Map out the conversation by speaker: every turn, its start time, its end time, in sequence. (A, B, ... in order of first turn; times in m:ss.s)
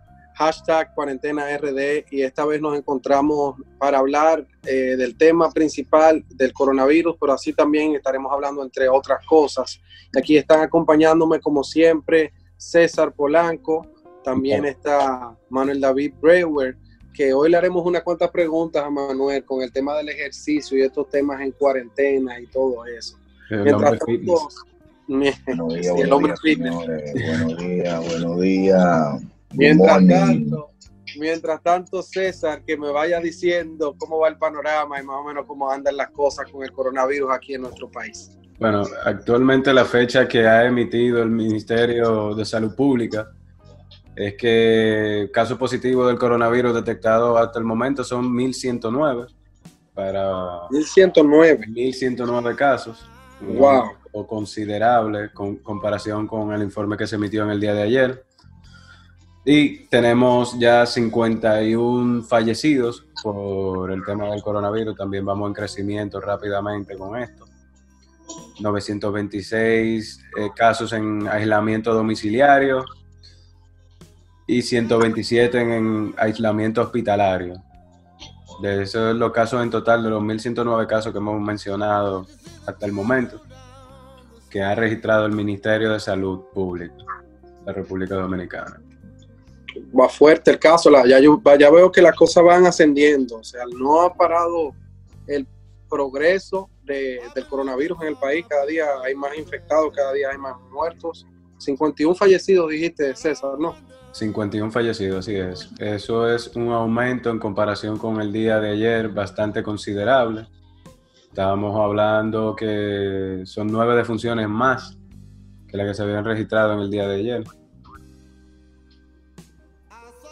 0:00.4-0:24.6 A
0:14.4-0:14.6 B
0:23.5-0:24.4 B
0:25.1-0:26.7 A
0:25.5-0:30.6 C
0:27.2-0:27.4 B
0:29.6-0:38.3 A
0:38.6-0:43.3 B
0:44.2-0:49.3 B
0:49.9-0:50.7 B
0:50.7-0:51.7 A
0:51.6-0:58.2 B
0:53.4-0:53.9 A
0:59.4-1:07.5 B
1:08.6-1:12.9 B
1:14.5-1:17.6 B
1:18.6-1:23.4 B
1:24.5-1:27.0 B
1:27.6-1:28.8 B
1:29.9-1:34.8 A
1:35.3-1:43.8 A
1:44.1-1:50.5 B
1:51.3-1:55.0 B
1:55.7-1:57.5 B